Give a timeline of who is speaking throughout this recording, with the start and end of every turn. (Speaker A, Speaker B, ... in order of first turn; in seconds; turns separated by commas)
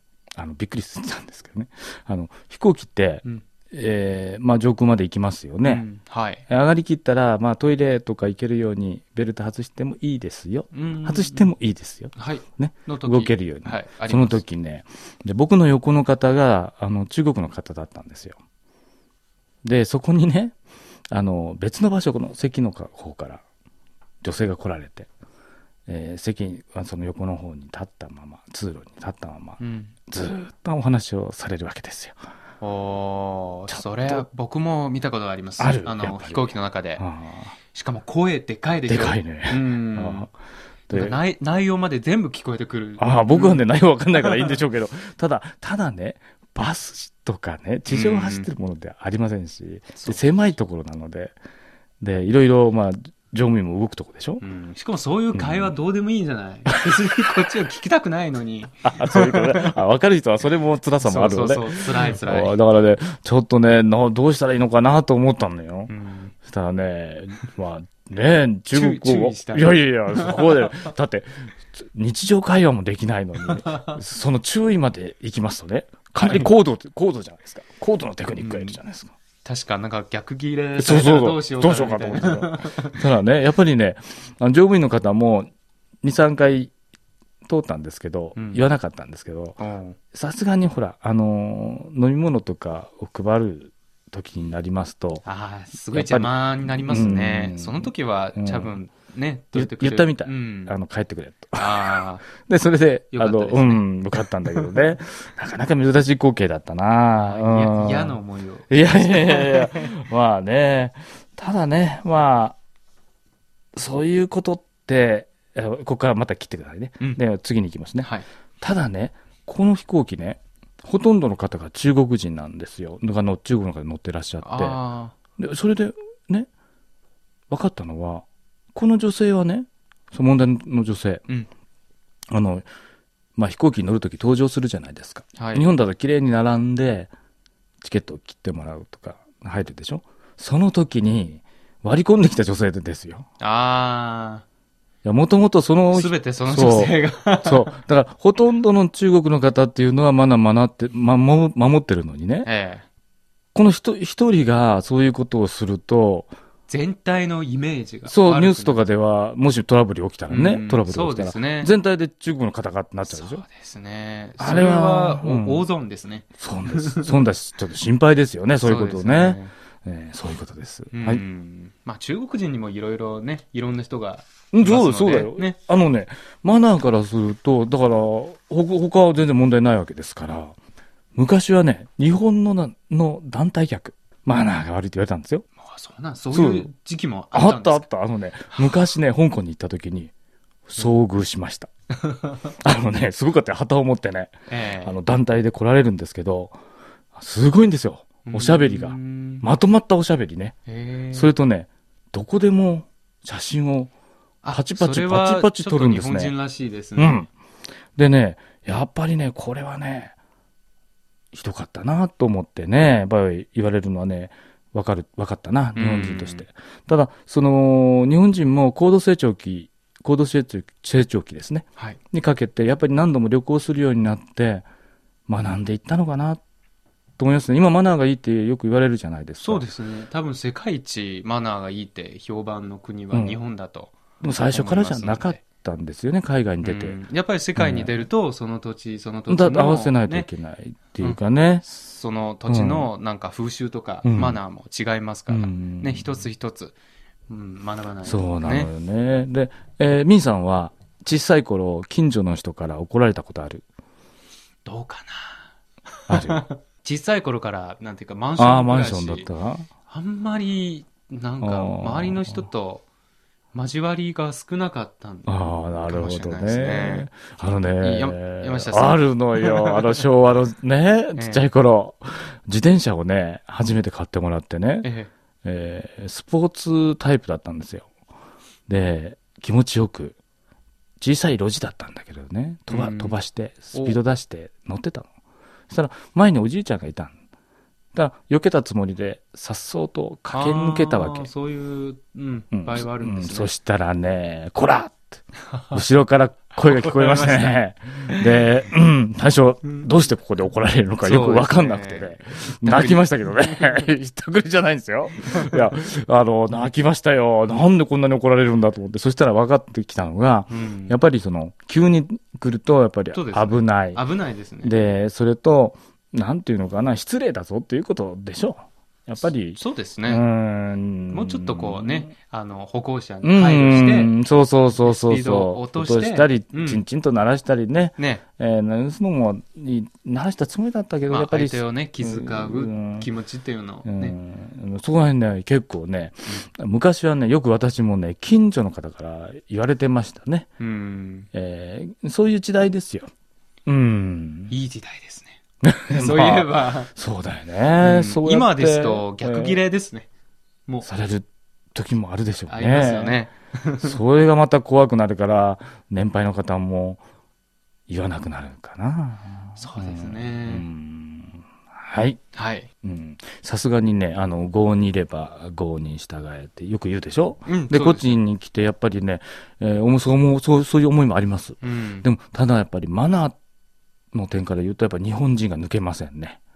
Speaker A: 0.4-5.8, Speaker B: 5.6-6.4, Speaker A: 6.5-18.4, Speaker B: 10.7-11.5, Speaker B: 12.2-14.4, Speaker A: 19.6-20.5, Speaker A: 21.1-23.4, Speaker A: 24.2-25.1, Speaker A: 25.9-32.2, Speaker B: 29.6-29.9, Speaker B: 32.6-37.0, Speaker A: 33.7-34.2, Speaker A: 35.6-37.5, Speaker B: 37.7-40.3, Speaker A: 38.9-40.3, Speaker A: 40.9-41.2, Speaker B: 40.9-44.5, Speaker A: 43.0-51.4, Speaker B: 47.9-48.5, Speaker B: 50.0-50.2, Speaker A: 52.0-54.4, Speaker B: 54.4-59.8, Speaker A: 55.4-55.8, Speaker A: 58.9-65.9, Speaker B: 61.0-62.6, Speaker B: 65.9-66.3, Speaker A: 66.5-79.1, Speaker B: 68.7-70.9, Speaker B: 73.4-74.0, Speaker B: 76.2-76.5, Speaker B: 78.4-78.8, Speaker B: 79.5-83.0, Speaker A: 80.8-85.5, Speaker A: 86.0-86.7, Speaker A: 87.5-89.6, Speaker B: 88.4-88.7, Speaker B: 89.6-90.0, Speaker A: 90.1-95.2, Speaker B: 95.2-100.8, Speaker A: 95.9-96.3, Speaker A: 96.8-98.8, Speaker A: 99.5-108.2, Speaker B: 101.6-102.3, Speaker B: 103.1-104.8, Speaker B: 107.2-110.0, Speaker A: 108.7-112.6, Speaker A: 113.8-124.8, Speaker B: 118.0-118.3, Speaker B: 124.4-125.1, Speaker A: 125.4-126.5, Speaker A: 127.5-131.2, Speaker A: 132.3-132.7, Speaker A: 133.4-137.1, Speaker B: 135.4-135.7, Speaker A: 137.8-143.3, Speaker B: 143.4-144.4, Speaker A: 145.0-152.5, Speaker B: 145.9-147.7, Speaker B: 152.4-152.8, Speaker A: 153.6-156.3, Speaker B: 156.7-158.8, Speaker A: 158.1-163.4, Speaker B: 160.3-161.7, Speaker B: 163.1-167.2, Speaker A: 164.4-165.7, Speaker A: 166.4-171.2, Speaker B: 168.6-169.5, Speaker B: 170.9-175.6, Speaker A: 174.5-180.6, Speaker A: 181.2-185.4, Speaker B: 185.6-187.9, Speaker A: 186.3-186.7, Speaker A: 187.3-190.1, Speaker B: 188.5-188.8, Speaker A: 190.7-191.7, Speaker B: 192.0-192.4, Speaker A: 192.6-196.6, Speaker B: 194.5-195.0, Speaker A: 197.2-200.6, Speaker B: 198.3-199.5, Speaker B: 200.7-201.3, Speaker A: 201.1-203.9, Speaker B: 204.4-207.3, Speaker A: 204.5-206.3, Speaker A: 207.0-207.3, Speaker A: 208.0-210.2, Speaker A: 211.3-224.7, Speaker B: 215.8-216.4, Speaker A: 225.3-226.4, Speaker A: 227.2-229.7, Speaker B: 229.4-234.0, Speaker A: 233.1-233.4, Speaker A: 234.2-237.0, Speaker B: 234.5-235.4, Speaker B: 236.6-240.3, Speaker A: 237.6-237.9, Speaker A: 239.3-241.7, Speaker B: 241.0-246.8, Speaker A: 242.5-242.9, Speaker A: 244.0-244.4, Speaker A: 245.3-246.3, Speaker B: 247.3-248.7, Speaker A: 248.0-253.7, Speaker B: 254.7-255.4, Speaker B: 256.1-259.3, Speaker A: 256.1-256.4, Speaker A: 258.4-259.7, Speaker B: 259.9-262.9, Speaker A: 261.4-262.5, Speaker B: 263.5-270.0, Speaker A: 265.3-274.9, Speaker B: 271.1-271.5, Speaker B: 274.8-275.1, Speaker A: 275.4-277.9, Speaker A: 278.7-280.2, Speaker A: 281.0-285.1, Speaker B: 282.7-283.2, Speaker B: 283.7-284.0, Speaker A: 285.7-287.1, Speaker A: 287.9-291.3, Speaker B: 290.3-293.5, Speaker A: 292.5-295.2, Speaker B: 295.5-295.8, Speaker A: 295.7-314.0, Speaker B: 296.6-298.6, Speaker B: 301.0-303.9, Speaker B: 310.5-311.0, Speaker B: 313.1-314.8, Speaker A: 314.6-322.1, Speaker B: 319.5-320.2, Speaker B: 321.1-324.2, Speaker A: 323.2-333.1, Speaker B: 324.8-326.9, Speaker B: 328.0-328.2, Speaker B: 331.1-334.2, Speaker A: 333.9-340.5, Speaker B: 340.6-341.3, Speaker A: 341.3-343.1, Speaker A: 343.7-344.5, Speaker B: 344.5-345.4, Speaker A: 345.6-349.6, Speaker B: 345.9-346.9, Speaker B: 347.8-350.1, Speaker A: 350.8-353.2, Speaker B: 352.5-354.0, Speaker A: 353.8-357.0, Speaker A: 357.9-362.2, Speaker B: 359.6-360.7, Speaker B: 362.3-362.7, Speaker A: 362.8-373.4, Speaker B: 367.5-368.2, Speaker B: 371.6-372.1, Speaker A: 374.1-376.4